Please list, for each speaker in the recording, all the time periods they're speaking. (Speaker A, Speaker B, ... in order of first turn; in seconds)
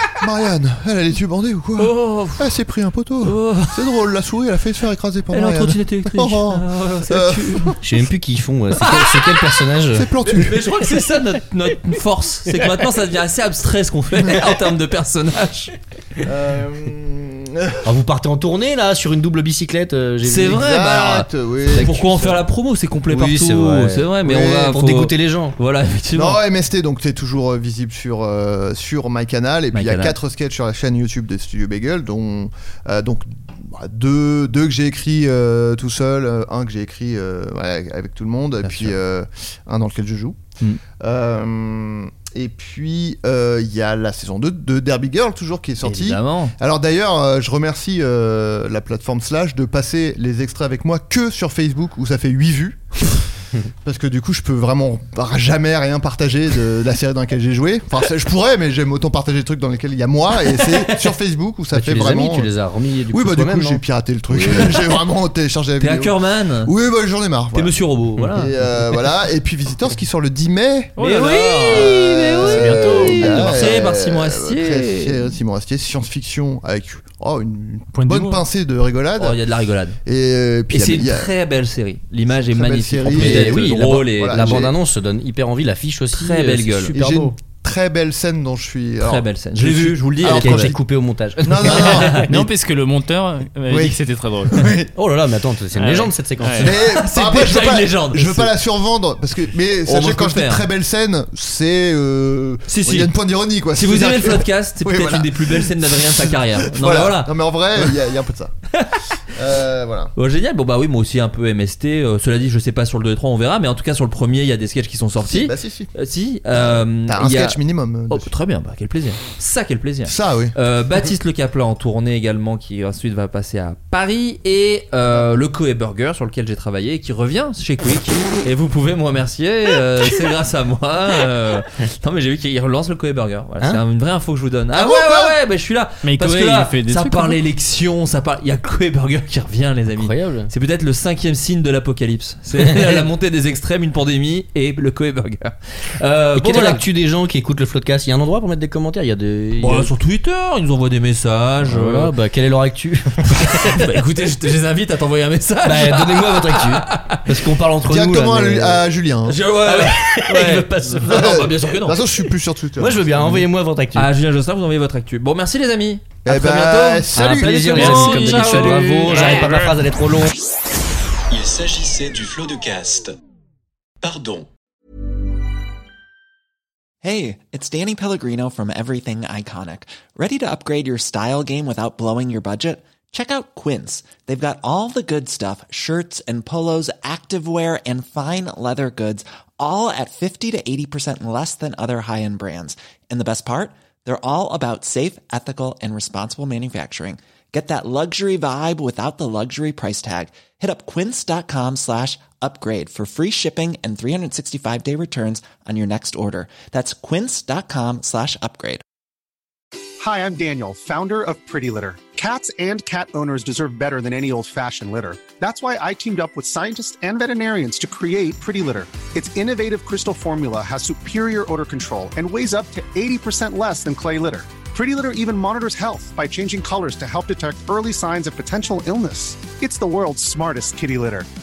Speaker A: 0.2-7.8, 9.9-10.6, 16.2-17.8, 20.5-22.4, 24.2-24.7, 26.1-40.4, 41.0-53.3, 53.8-62.5, 63.1-67.8, 68.3-71.0, 71.7-79.4, 80.0-81.3, 82.3-84.7, 86.9-90.8, 91.4-92.5, 93.7-94.9, 96.6-108.5, 109.3-110.1, 115.2-115.9, 117.0-118.3, 120.0-120.5, 125.1-125.4, 134.7-135.3, 157.9-159.4, 161.0-163.2, 166.2-167.5
Speaker B: 1.8-2.5, 3.2-4.0, 5.3-7.8, 10.3-16.3, 20.2-26.4, 29.7-30.1, 38.6-39.0, 45.8-46.5, 65.8-66.7, 67.5-69.0, 71.0-75.3, 79.2-80.0, 80.7-84.7, 86.1-86.9, 89.0-90.8, 91.6-92.3, 96.6-98.5, 99.9-100.7, 102.7-103.1, 103.7-107.3, 108.7-109.2, 110.2-117.6, 118.1-146.8, 149.6-152.1, 153.3-158.1, 159.2-162.2, 163.2-169.6
Speaker C: 7.8-10.1, 17.9-20.6, 23.1-25.6, 61.7-63.8, 64.3-64.8, 72.5-73.5, 83.1-87.3, 90.2-92.3, 95.0-96.8, 140.0-140.5, 142.6-143.0, 146.4-149.9, 151.6-153.9, 155.6-158.8, 159.7-161.1, 162.8-164.1, 167.1-170.4
Speaker D: 71.0-73.4, 77.9-78.4, 92.3-94.7, 95.8-96.7, 136.0-137.4, 167.7-169.7
Speaker E: 171.3-173.1, 174.0-174.5
Speaker F: 177.0-208.8
Speaker G: 210.0-231.3